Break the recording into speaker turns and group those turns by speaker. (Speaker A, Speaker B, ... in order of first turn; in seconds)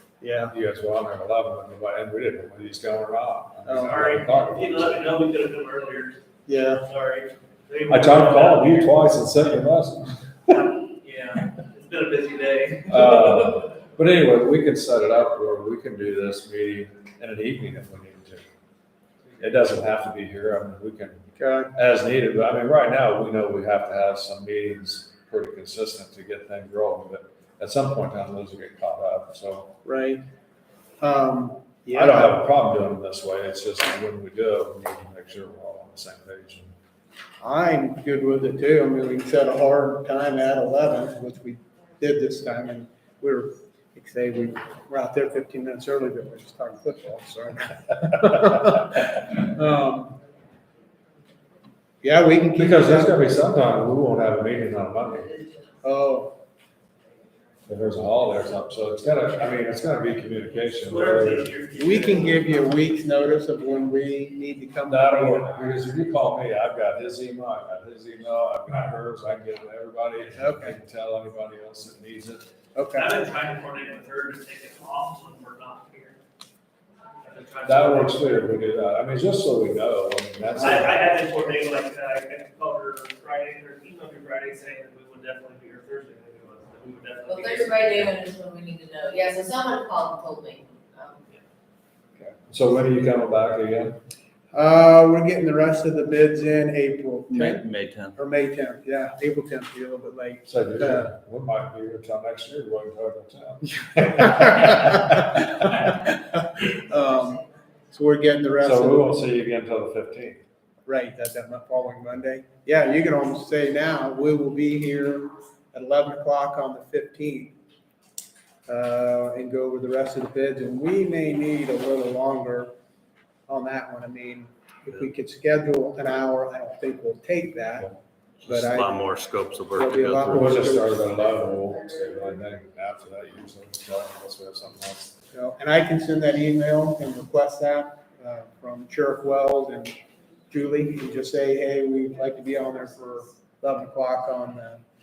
Speaker A: 0.2-0.5, 3.7-4.1, 6.5-6.8, 21.4-21.7, 29.8-30.2, 31.0-32.4, 37.4-50.2, 52.0-53.2, 55.8-56.4, 61.8-65.7, 70.4-70.8, 72.8-73.1, 80.6-80.9, 94.5-101.1, 104.2-109.1, 110.9-117.5, 118.7-122.7, 123.5-127.9, 128.4-129.1, 129.7-131.0, 135.3-140.0, 140.5-144.8
Speaker B: 0.5-5.1, 7.9-10.5, 12.9-18.5, 19.4-29.8, 31.9-36.7, 52.6-55.4, 57.7-61.5, 64.9-72.5, 77.7-81.0, 92.5-94.0, 100.5-105.9, 108.6-110.4, 130.3-135.2
Speaker C: 3.9-6.2, 6.8-8.9, 10.5-13.4, 60.9-62.6, 72.9-76.2, 77.2-78.4, 80.6-88.2
Speaker D: 87.3-91.2
Speaker E: 97.3-98.2, 128.4-130.6